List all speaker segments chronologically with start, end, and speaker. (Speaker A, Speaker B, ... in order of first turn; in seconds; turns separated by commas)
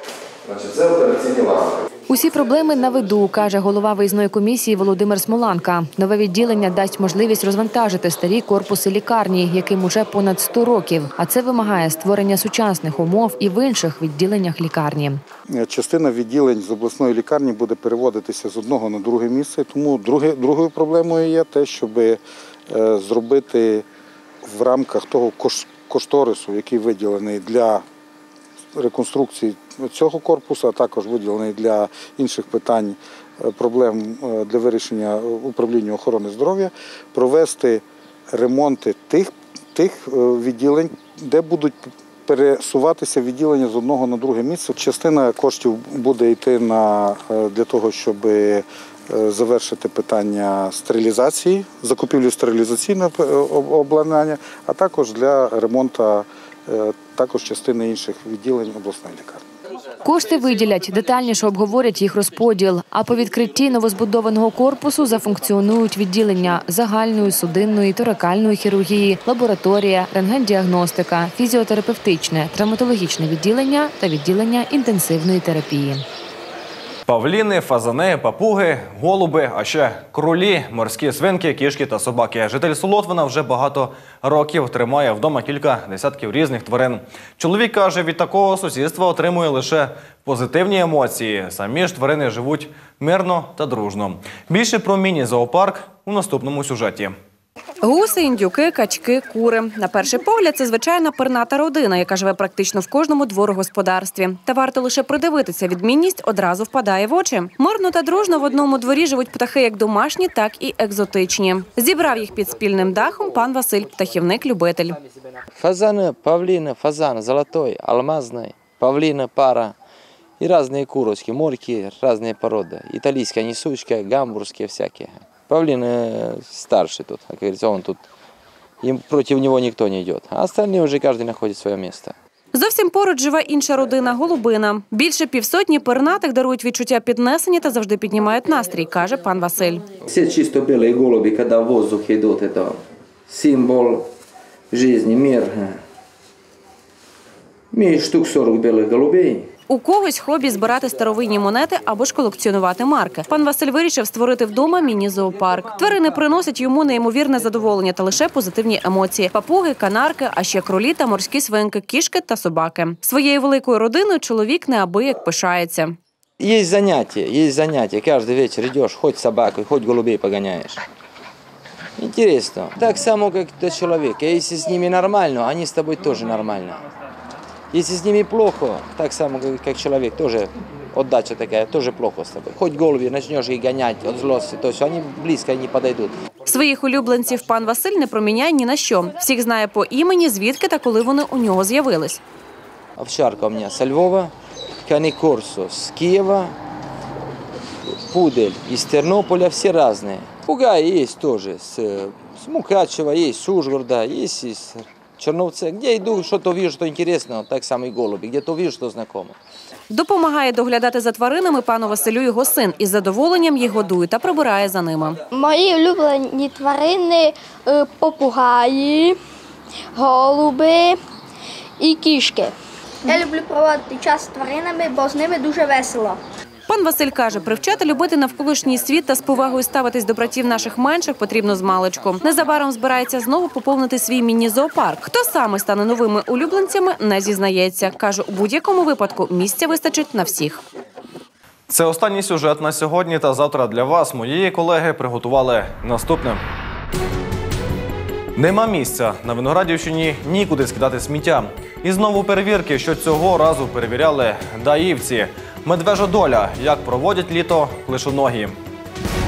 Speaker A: 0.4-1.7, Speaker B: 2.1-15.2, Speaker C: 15.5-23.8, Speaker C: 24.4-27.8, Speaker C: 28.7-59.4, Speaker B: 60.0-76.0, Speaker D: 77.1-97.1, Speaker E: 97.8-115.0, Speaker A: 115.5-119.7, Speaker A: 120.4-128.1, Speaker A: 128.8-132.1, Speaker E: 132.5-139.8, Speaker A: 140.0-144.1, Speaker A: 144.7-145.8, Speaker A: 147.7-149.5, Speaker E: 149.7-166.0, Speaker A: 166.4-170.8, Speaker A: 172.0-176.8, Speaker A: 177.7-186.2, Speaker E: 186.4-192.2, Speaker A: 193.0-194.3, Speaker A: 194.8-196.6, Speaker A: 198.0-209.3, Speaker E: 209.9-215.2, Speaker F: 215.3-219.2, Speaker F: 219.9-221.0, Speaker F: 221.8-222.5, Speaker F: 223.0-226.2, Speaker E: 226.7-240.6, Speaker D: 241.7-246.4, Speaker D: 248.3-258.6